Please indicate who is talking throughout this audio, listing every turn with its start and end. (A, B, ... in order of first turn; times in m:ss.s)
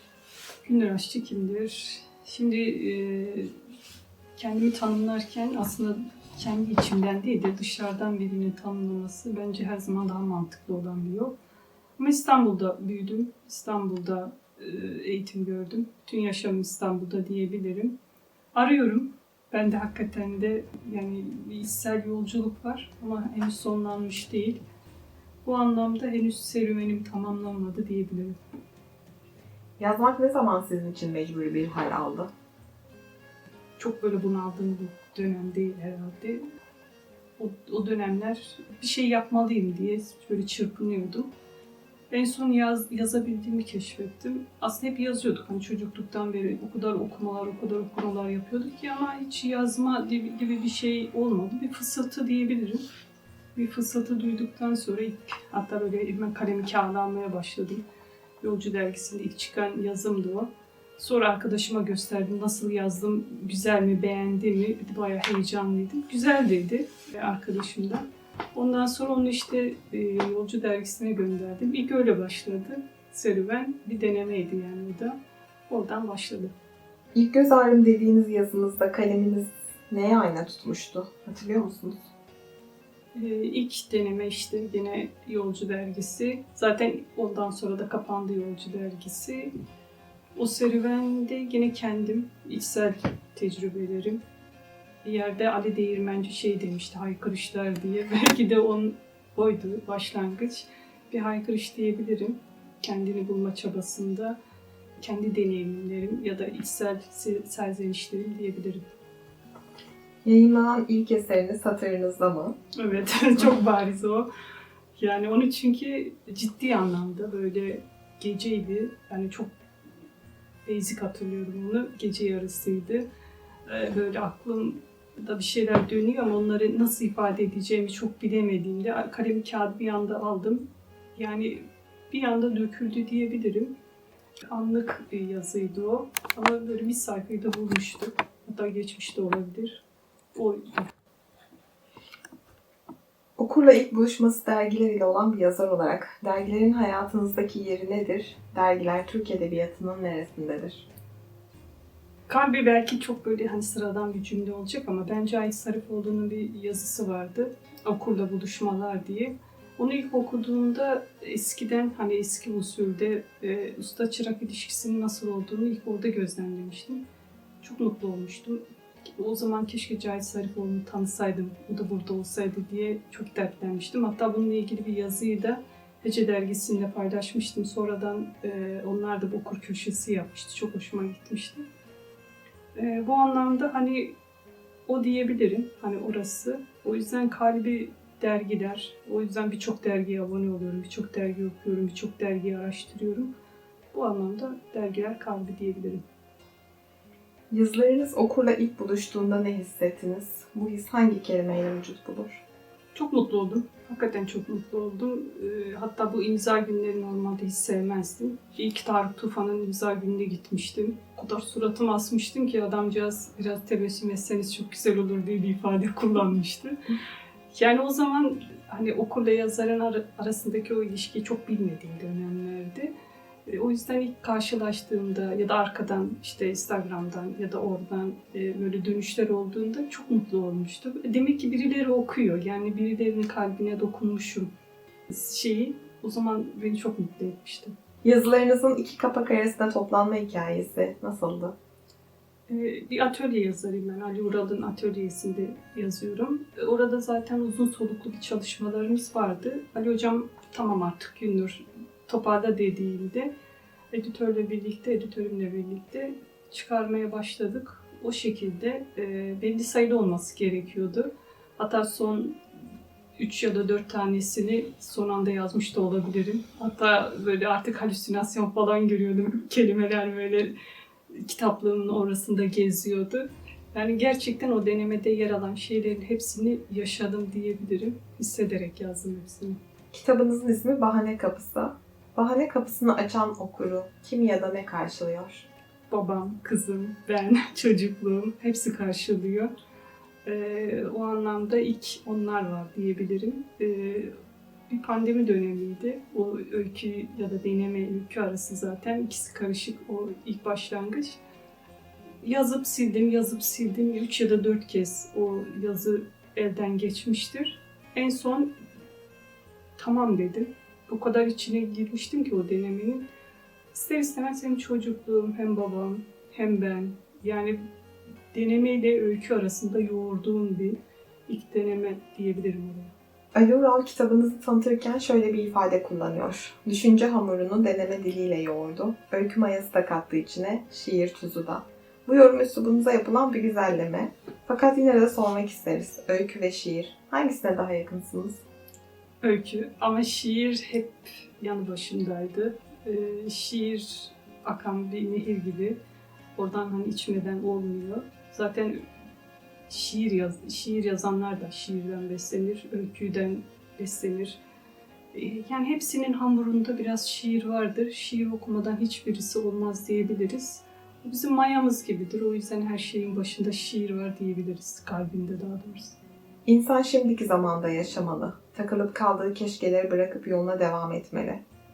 0:00.7-0:03.5 A
0:04.4-0:11.3 A
0:12.0-0:18.0 A
0:18.5-0:24.6 A
0:25.4-0:28.4 A
0:29.8-0:32.3 B
0:33.8-0:36.4 A
0:37.4-0:41.3 A
0:42.1-0:52.8 A
0:53.6-0:57.8 A
0:58.4-1:15.2 A
1:15.7-1:16.5 A
1:17.1-1:22.1 B
1:23.1-1:29.5 A
1:30.4-1:34.2 A
1:35.0-1:44.4 A
1:45.0-1:48.8 A
1:50.2-1:52.6 B
1:52.8-1:54.3 A
1:55.0-1:59.5 A
2:00.6-2:03.0 A
2:03.7-2:13.7 A
2:14.5-2:19.8 A
2:20.4-2:20.9 A
2:23.4-2:30.9 B
2:32.3-2:47.0 A
2:47.6-2:48.6 A
2:49.2-3:01.6 A
3:02.8-3:04.2 A
3:04.9-3:13.3 A
3:13.9-3:16.0 A
3:17.5-3:22.4 B
3:22.9-3:36.8 A
3:37.5-3:42.9 A
3:43.5-3:54.5 A
3:55.1-3:57.7 A
3:58.0-4:01.6 B
4:02.5-4:13.3 A
4:13.9-4:22.4 A
4:23.2-4:30.5 A
4:31.1-4:39.6 A
4:39.9-4:45.5 B
4:45.9-4:49.5 A
4:50.2-4:54.1 A
4:54.7-5:01.2 A
5:02.2-5:08.5 A
5:09.8-5:13.1 A
5:13.7-5:17.6 A
5:18.3-5:20.8 A
5:21.3-5:22.9 A
5:23.3-5:38.4 B
5:39.2-5:45.8 A
5:46.4-5:48.8 A
5:49.7-5:54.4 A
5:55.1-6:06.0 A
6:06.5-6:11.4 B